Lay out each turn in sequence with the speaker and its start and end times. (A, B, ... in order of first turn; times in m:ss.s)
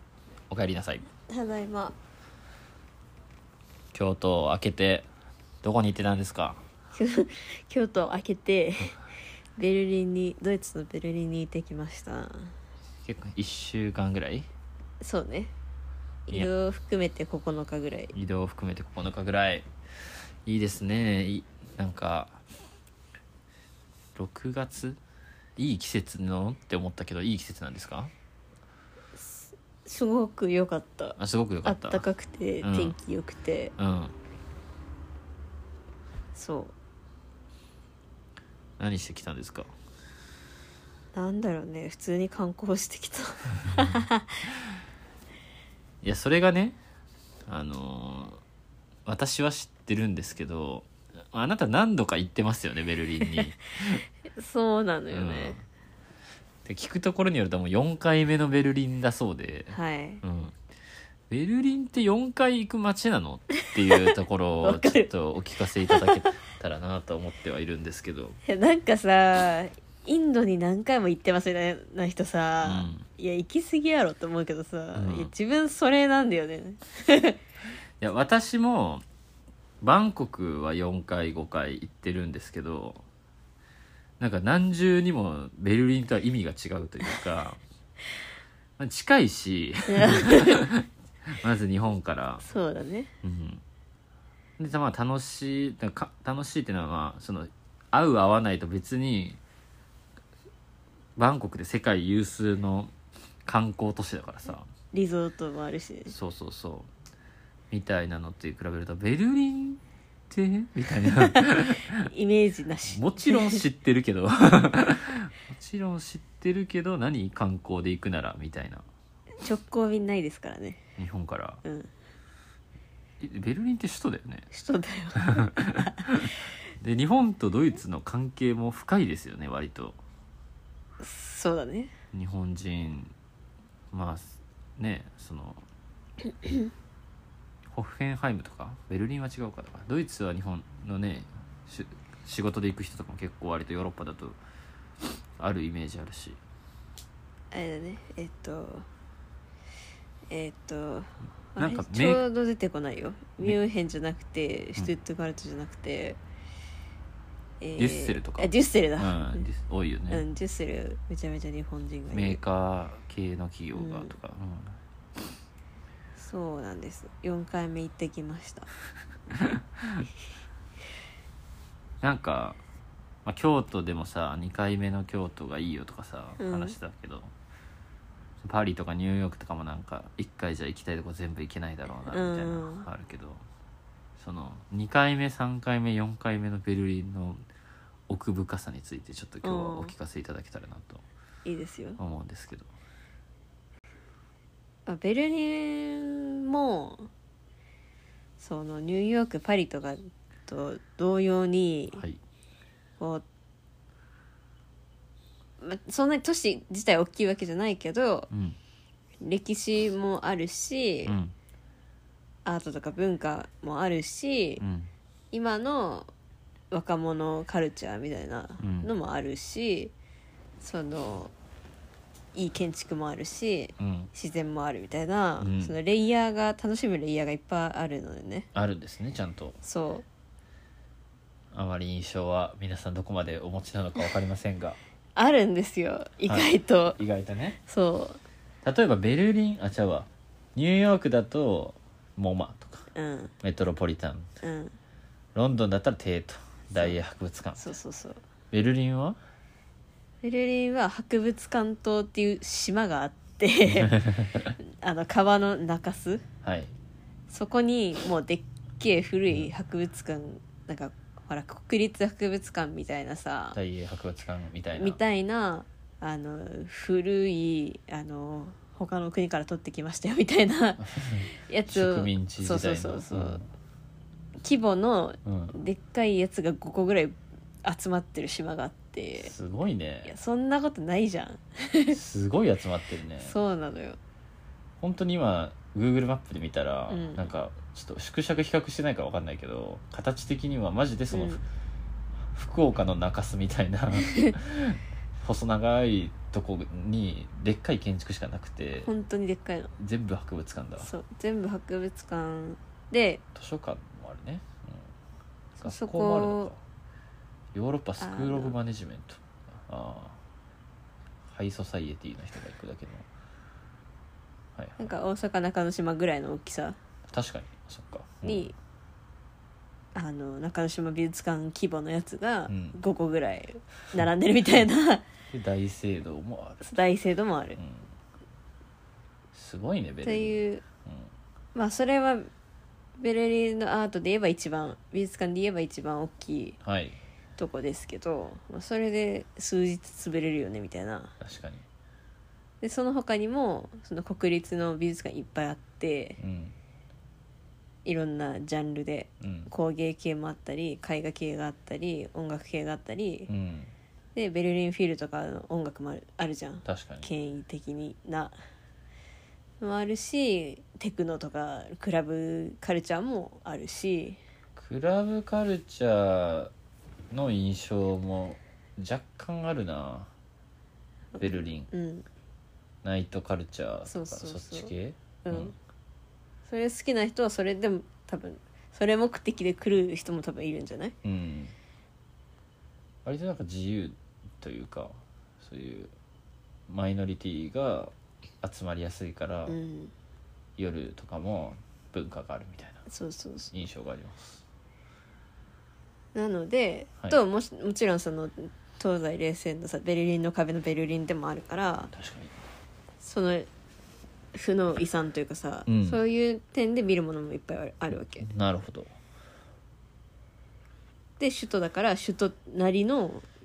0:00.5-0:01.0 A
0:01.3-0:02.0 B
0:03.9-0:05.1 A
0:05.6-0:06.6 A
0:06.9-0:09.0 B
0:09.6-0:12.5 B
0:13.0-0:14.5 A
0:15.0-0:15.5 B
0:16.3-0:18.1 B
0:18.1-0:22.4 A
0:24.1-0:25.0 A
0:25.6-0:28.1 A
0:29.2-0:33.7 B
0:31.2-0:32.0 A
0:32.6-0:33.0 A
0:33.8-0:34.1 A
0:36.3-0:36.7 B
0:38.8-0:39.7 A
0:41.1-0:44.4 B
0:46.0-0:46.8 A
0:47.4-0:48.4 A
0:49.0-0:54.0 A
0:54.3-0:55.6 B
0:55.1-0:55.6 A
0:56.6-1:00.6 A
0:59.7-1:00.2 B
1:01.3-1:08.4 A
1:03.6-1:04.0 B
1:04.6-1:05.1 B
1:05.8-1:06.2 B
1:08.4-1:17.4 B
1:12.6-1:13.0 A
1:14.9-1:15.3 A
1:18.0-1:19.0 A
1:19.8-1:23.0 A
1:24.2-1:27.6 A
1:28.8-1:32.4 A
1:29.9-1:30.7 B
1:32.4-1:33.1 B
1:33.2-1:33.6 A
1:34.6-1:39.4 A
1:41.2-1:44.7 A
1:44.9-1:46.1 B
1:46.1-1:46.9 A
1:47.7-1:52.1 A
1:51.2-1:53.6 B
1:52.9-1:58.8 A
1:59.4-2:00.8 B
2:01.0-2:01.6 A
2:01.6-2:01.9 B
2:03.2-2:04.5 A
2:04.5-2:06.2 B
2:05.2-2:10.0 A
2:11.0-2:11.9 B
2:12.1-2:13.1 A
2:13.9-2:15.6 A
2:17.7-2:24.4 A
2:25.4-2:26.4 A
2:27.5-2:28.8 B
2:30.3-2:36.2 B
2:31.6-2:32.2 A
2:37.6-2:39.4 B
2:37.8-2:40.2 A
2:40.1-2:42.4 B
2:42.1-2:44.8 A
2:43.7-2:44.1 B
2:46.2-2:48.7 B
2:49.3-2:50.1 A
2:52.0-2:52.6 A
2:53.2-2:57.3 A
2:56.4-2:56.8 B
2:58.4-3:03.4 A
3:02.1-3:02.9 B
3:04.2-3:07.4 A
3:08.1-3:11.0 A
3:09.4-3:09.9 B
3:11.4-3:12.0 B
3:12.0-3:12.7 A
3:14.8-3:17.1 B
3:18.4-3:22.0 B
3:21.9-3:22.2 A
3:25.6-3:28.3 B
3:28.3-3:28.6 A
3:29.2-3:31.2 B
3:31.0-3:31.3 A
3:32.4-3:34.6 B
3:34.6-3:34.9 A
3:35.3-3:36.1 B
3:36.7-3:39.9 B
3:38.6-3:38.9 A
3:40.6-3:41.3 B
3:42.3-3:48.5 B
3:43.8-3:44.1 A
3:45.4-3:45.8 A
3:48.5-3:49.6 A
3:49.6-3:50.0 B
3:51.5-3:54.8 A
3:55.2-3:57.0 B
3:56.2-3:57.6 A
3:57.7-3:58.2 B
3:58.6-4:02.9 A
4:02.9-4:03.3 B
4:03.4-4:04.3 A
4:04.4-4:04.7 B
4:05.3-4:07.7 A
4:07.6-4:08.2 B
4:08.5-4:09.2 A
4:10.2-4:14.0 B
4:13.7-4:14.5 A
4:14.6-4:16.2 B
4:16.4-4:16.7 A
4:17.3-4:23.6 B
4:23.5-4:25.0 A
4:24.7-4:33.4 B
4:30.8-4:33.4 A
4:34.4-4:39.3 B
4:35.2-4:35.5 A
4:39.2-4:40.1 A
4:40.0-4:42.0 B
4:41.9-4:43.4 A
4:43.2-4:44.0 B
4:44.8-4:51.4 A
4:46.9-4:47.3 B
4:51.1-4:51.4 B
4:52.3-4:58.9 A
4:54.0-4:54.3 B
4:58.8-4:59.7 B
4:59.8-5:00.9 A
5:00.8-5:03.2 B
5:03.3-5:04.9 A
5:05.6-5:06.6 A
5:05.6-5:06.5 B
5:07.5-5:10.2 A
5:08.0-5:08.5 B
5:11.2-5:13.1 A
5:14.5-5:15.0 A
5:14.8-5:16.8 B
5:17.1-5:18.5 A
5:18.2-5:18.5 B
5:19.9-5:25.0 B
5:22.5-5:22.8 A
5:25.3-5:26.6 A
5:26.6-5:27.6 B
5:27.6-5:27.9 A
5:29.3-5:31.1 A
5:30.0-5:30.6 B
5:31.5-5:32.3 B
5:33.0-5:36.6 B
5:36.6-5:37.0 A
5:37.4-5:41.1 B
5:41.2-5:41.6 A
5:42.6-5:46.2 B
5:46.2-5:46.5 A
5:47.8-5:53.3 B
5:49.2-5:49.5 A
5:53.3-5:53.7 A
5:54.1-5:58.4 B
5:56.6-5:57.1 A
5:59.6-6:04.2 B
6:04.6-6:06.5 A
6:07.1-6:10.1 A
6:11.2-6:12.0 B
6:11.2-6:11.7 A
6:12.8-6:15.5 A
6:13.9-6:15.6 B
6:16.4-6:20.9 B
6:21.0-6:21.5 A
6:23.0-6:25.9 A
6:26.7-6:29.6 A
6:29.5-6:29.9 B
6:30.6-6:32.8 A
6:32.9-6:33.5 B
6:33.5-6:34.4 A
6:36.1-6:41.9 B
6:41.9-6:42.4 A
6:43.0-6:43.5 B
6:44.3-6:48.3 B
6:45.7-6:46.0 A
6:48.0-6:48.9 A
6:51.2-6:53.2 B